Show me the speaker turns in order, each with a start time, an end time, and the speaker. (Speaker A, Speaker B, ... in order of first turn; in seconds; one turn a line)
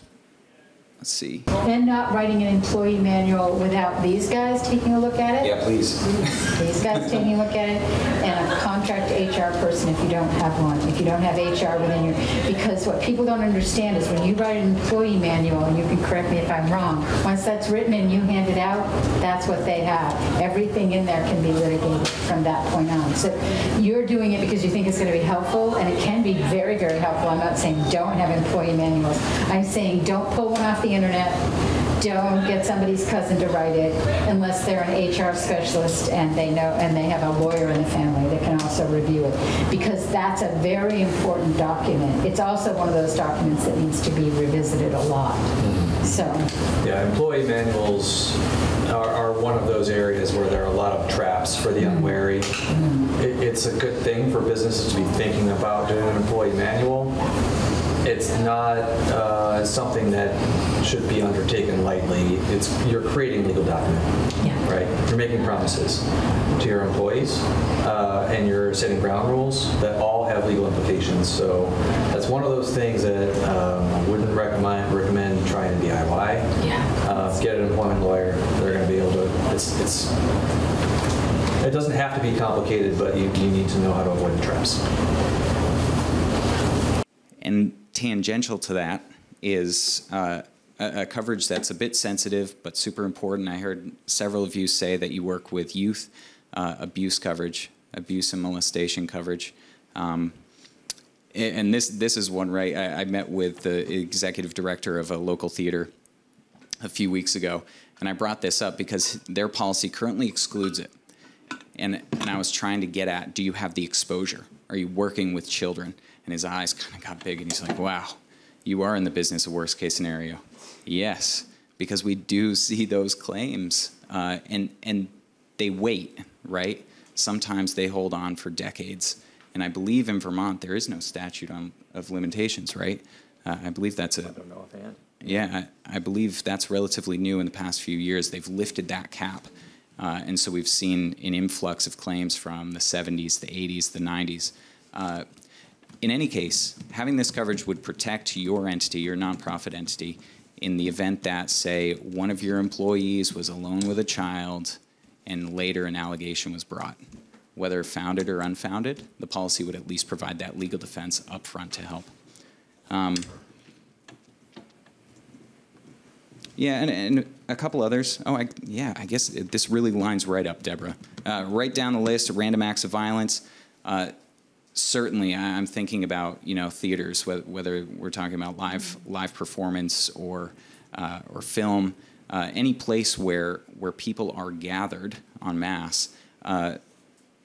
Speaker A: 1.0-1.5
Speaker B: 1.6-5.5
Speaker A: 5.4-6.5
Speaker B: 6.3-31.4
Speaker B: 32.0-45.5
Speaker C: 45.6-46.0
Speaker B: 46.0-46.5
Speaker C: 46.8-52.5
Speaker B: 51.8-52.1
Speaker B: 52.7-53.1
Speaker C: 53.2-57.1
Speaker C: 58.0-64.1
Speaker C: 64.6-66.0
Speaker C: 66.6-80.1
Speaker B: 76.6-76.9
Speaker C: 81.6-84.8
Speaker A: 87.4-100.4
Speaker A: 101.3-105.9
Speaker A: 106.8-110.9
Speaker A: 111.8-134.3
Speaker C: 134.2-135.0
Speaker A: 135.2-145.3
Speaker A: 146.0-157.0
Speaker A: 157.5-162.1
Speaker A: 162.9-163.3
Speaker A: 166.6-174.1
Speaker A: 174.7-186.8